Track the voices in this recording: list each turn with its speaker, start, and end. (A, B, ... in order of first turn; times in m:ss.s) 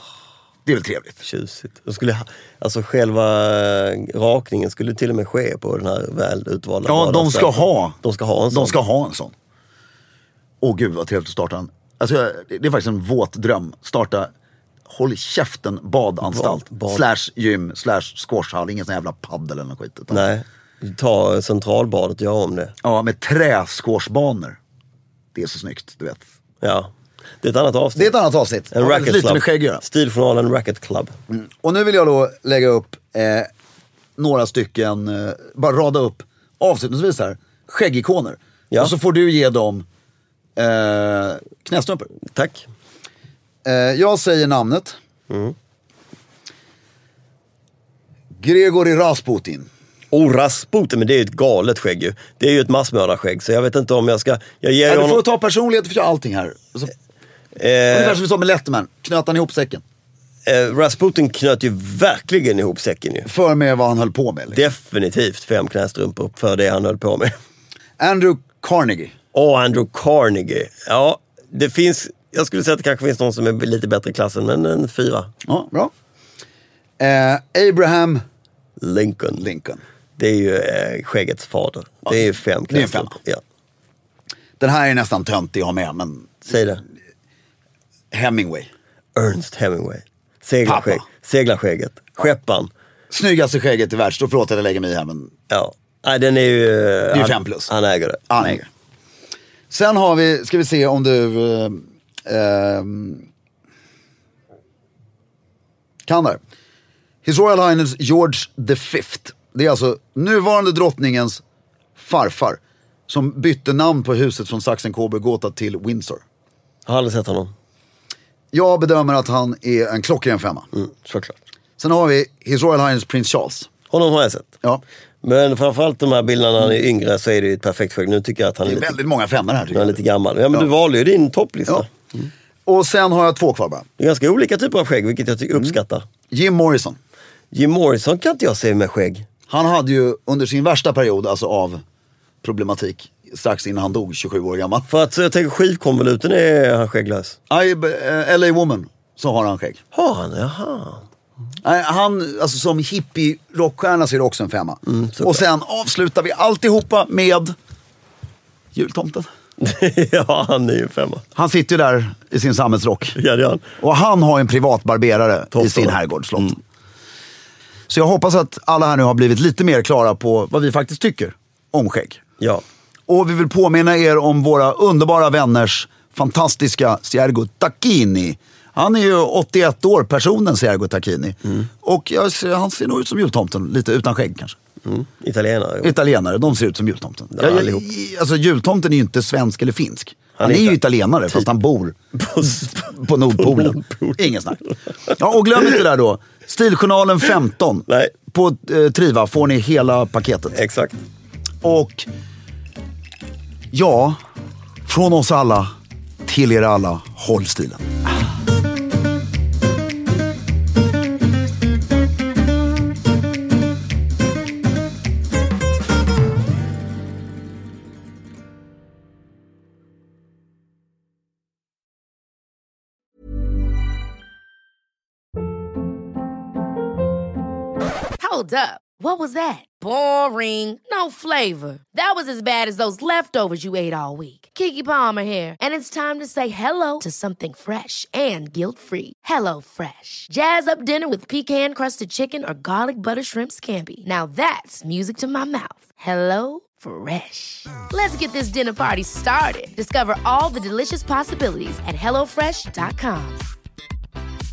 0:00.6-0:01.2 A
0:01.2-0:08.8 B
0:06.8-0:08.0 A
0:08.5-0:09.3 A
0:10.6-0:14.3 A
0:14.8-0:20.3 A
0:16.3-0:17.0 B
0:20.1-0:22.7 B
0:22.8-0:24.6 A
0:25.3-0:26.2 A
0:26.6-0:28.1 B
0:27.9-0:29.8 A
0:28.7-0:31.1 B
0:31.3-0:33.5 A
0:34.2-0:39.8 A
0:40.6-0:42.1 A
0:42.2-0:42.7 B
0:43.6-0:45.0 A
0:45.3-0:45.5 B
0:48.4-0:49.7 A
0:50.1-0:55.2 B
0:54.8-0:56.9 A
0:57.6-0:58.2 B
0:57.9-0:59.8 A
1:00.4-1:03.3 B
1:03.2-1:04.6 A
1:04.5-1:07.3 B
1:08.0-1:09.1 A
1:09.3-1:15.3 B
1:15.4-1:15.9 A
1:17.0-1:18.2 A
1:18.8-1:19.4 B
1:19.4-1:19.8 A
1:20.2-1:23.4 B
1:22.0-1:23.1 A
1:24.6-1:26.5 A
1:26.4-1:26.8 B
1:28.1-1:28.7 A
1:29.1-1:32.7 B
1:30.6-1:31.0 A
1:33.1-1:35.3 A
1:35.5-1:38.6 B
1:37.1-1:37.7 A
1:38.3-1:38.7 A
1:39.7-1:43.2 A
1:46.0-1:46.4 A
1:47.2-1:51.4 A
1:52.0-1:56.2 A
1:56.8-1:57.5 B
1:58.5-2:00.7 A
2:00.7-2:01.4 B
2:01.8-2:03.7 A
2:03.9-2:04.5 B
2:05.2-2:09.0 B
2:08.6-2:10.0 A
2:09.7-2:12.3 B
2:12.6-2:13.9 A
2:14.0-2:16.1 B
2:16.3-2:17.0 A
2:17.5-2:19.3 B
2:19.5-2:21.8 A
2:22.4-2:24.9 A
2:24.9-2:27.4 B
2:27.5-2:29.8 A
2:29.9-2:31.0 B
2:31.6-2:37.5 A
2:34.8-2:35.4 B
2:38.7-2:39.3 A
2:39.6-2:41.2 B
2:41.3-2:43.2 A
2:43.1-2:43.6 B
2:43.8-2:46.6 A
2:45.5-2:46.6 B
2:47.9-2:52.2 A
2:53.1-3:04.6 A
3:04.8-3:06.0 B
3:05.8-3:12.0 A
3:07.3-3:07.8 B
3:10.4-3:10.8 B
3:12.1-3:15.6 B
3:12.6-3:20.6 A
3:17.9-3:18.1 B
3:20.5-3:21.0 B
3:21.6-3:22.1 A
3:23.7-3:24.2 A
3:24.8-3:25.7 A
3:26.2-3:27.9 A
3:48.2-4:13.5 C